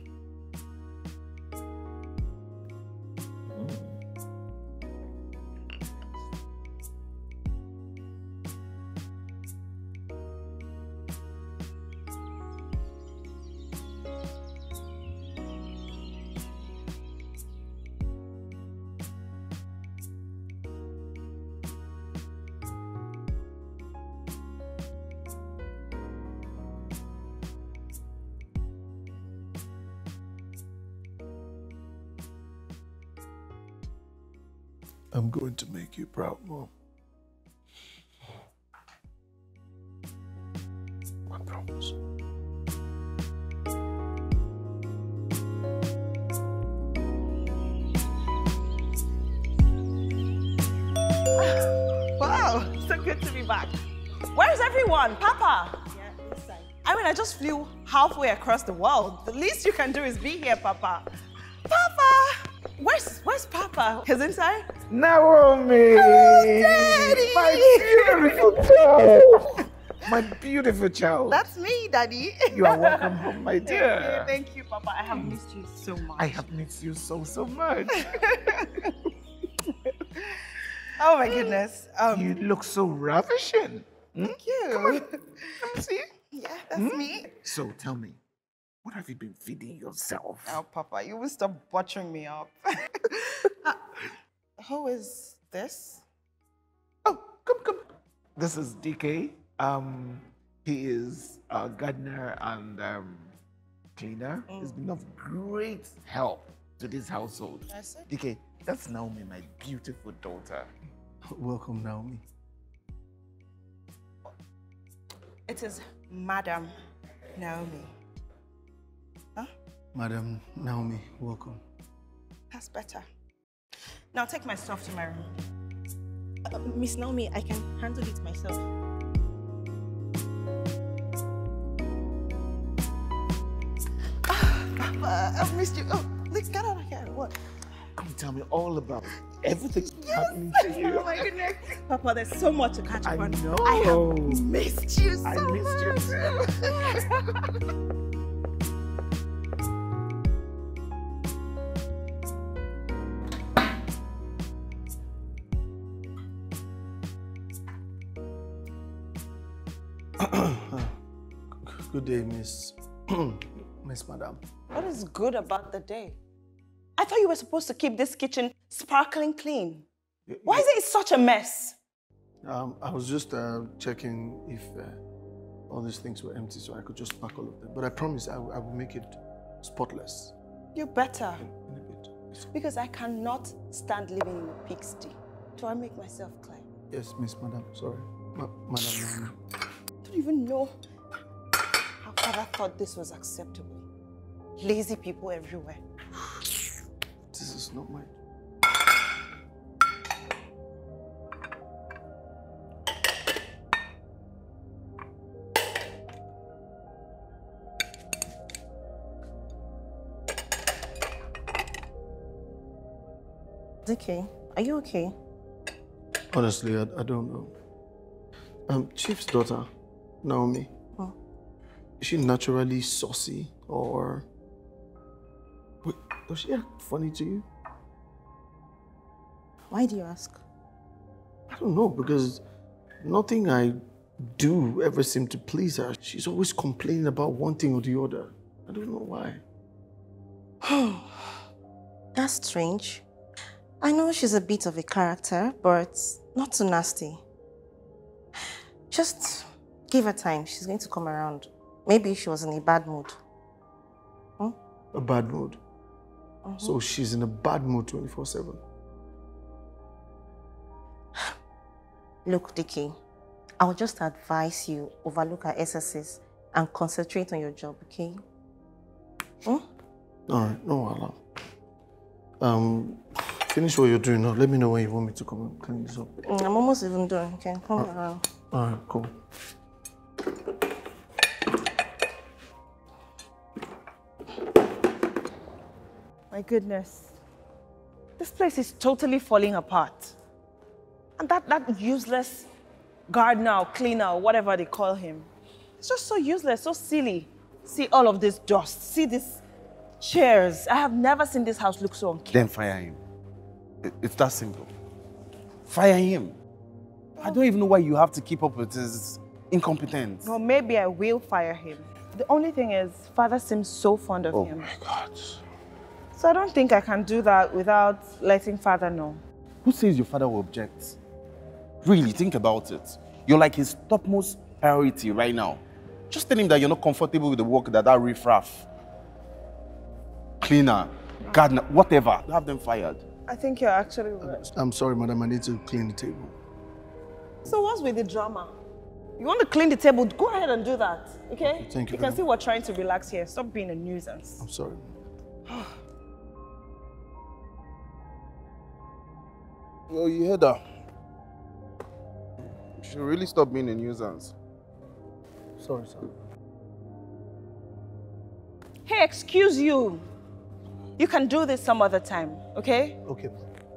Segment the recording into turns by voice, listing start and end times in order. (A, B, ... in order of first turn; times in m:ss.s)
0:03.5-0:04.0 A
0:35.1-0:36.7 B
0:41.3-0:41.9 B
0:51.4-0:53.8 C
0:54.3-1:01.1 C
1:01.7-1:04.7 C
1:04.9-1:11.5 A
1:05.9-1:08.4 C
1:11.3-1:16.4 C
1:12.5-1:14.4 A
1:16.1-1:18.5 A
1:18.0-1:18.9 C
1:21.0-1:22.3 C
1:22.1-1:25.0 A
1:24.3-1:25.6 C
1:25.6-1:26.1 A
1:26.3-1:27.3 C
1:26.7-1:28.2 A
1:28.8-1:30.6 A
1:30.5-1:33.7 C
1:34.6-1:36.0 C
1:37.0-1:37.8 A
1:38.4-1:43.3 A
1:44.0-1:50.7 A
1:47.7-1:48.1 C
1:51.3-1:52.2 B
1:55.5-1:56.7 C
1:57.4-1:57.9 C
2:00.0-2:01.6 B
2:02.5-2:03.1 C
2:04.1-2:05.3 C
2:06.5-2:08.6 D
2:14.3-2:17.3 C
2:18.0-2:21.6 A
2:20.0-2:27.1 C
2:23.0-2:24.5 A
2:25.2-2:26.8 A
2:40.2-2:40.9 B
2:41.6-2:44.4 B
2:44.7-2:46.2 C
2:47.0-2:49.9 C
2:50.3-2:50.7 B
2:50.4-2:51.8 C
2:52.4-2:55.0 B
2:55.7-3:00.3 B
3:00.8-3:01.4 C
3:01.5-3:02.4 B
3:02.5-3:06.6 C
3:06.9-3:09.4 B
3:10.0-3:10.8 C
3:12.0-3:13.8 C
3:14.6-3:15.8 C
3:17.3-3:18.1 B
3:33.8-3:35.2 D
3:36.3-3:37.5 B
3:38.7-3:39.7 B
3:40.2-3:40.7 B
3:42.0-3:44.3 B
3:45.8-3:47.5 B
3:49.7-3:50.4 D
3:51.5-3:52.4 B
3:53.0-3:59.4 B
4:00.6-4:01.2 D
4:02.2-4:03.0 D
4:03.8-4:07.2 D
4:08.9-4:13.2 D
4:14.9-4:15.6 B
4:16.4-4:16.8 D
4:16.6-4:18.6 B
4:22.2-4:23.0 D
4:23.6-4:28.2 D
4:30.3-4:31.2 B
4:32.4-4:36.1 B
4:36.2-4:38.3 D
4:38.5-4:39.1 B
4:46.3-4:47.2 C
4:48.2-4:50.2 C
4:51.2-4:52.5 C
4:53.1-4:59.4 C
5:00.0-5:02.5 C
5:02.3-5:03.0 E
5:03.8-5:04.7 E
5:05.7-5:06.3 E
5:07.2-5:07.4 C
5:07.2-5:10.3 E
5:10.2-5:14.7 C
5:16.2-5:19.2 C
5:19.7-5:21.0 E
5:21.8-5:28.7 E
5:30.4-5:33.0 E
5:33.3-5:34.5 C
5:34.3-5:36.4 B
5:37.4-5:38.6 C
5:39.2-5:44.4 C
5:41.6-5:42.2 B
5:44.4-5:44.9 B
5:45.5-5:45.7 C
5:49.9-5:50.6 E
5:52.8-5:54.3 E
5:55.6-5:56.1 B
5:58.9-6:00.1 C
6:01.0-6:03.0 C
6:03.0-6:03.4 B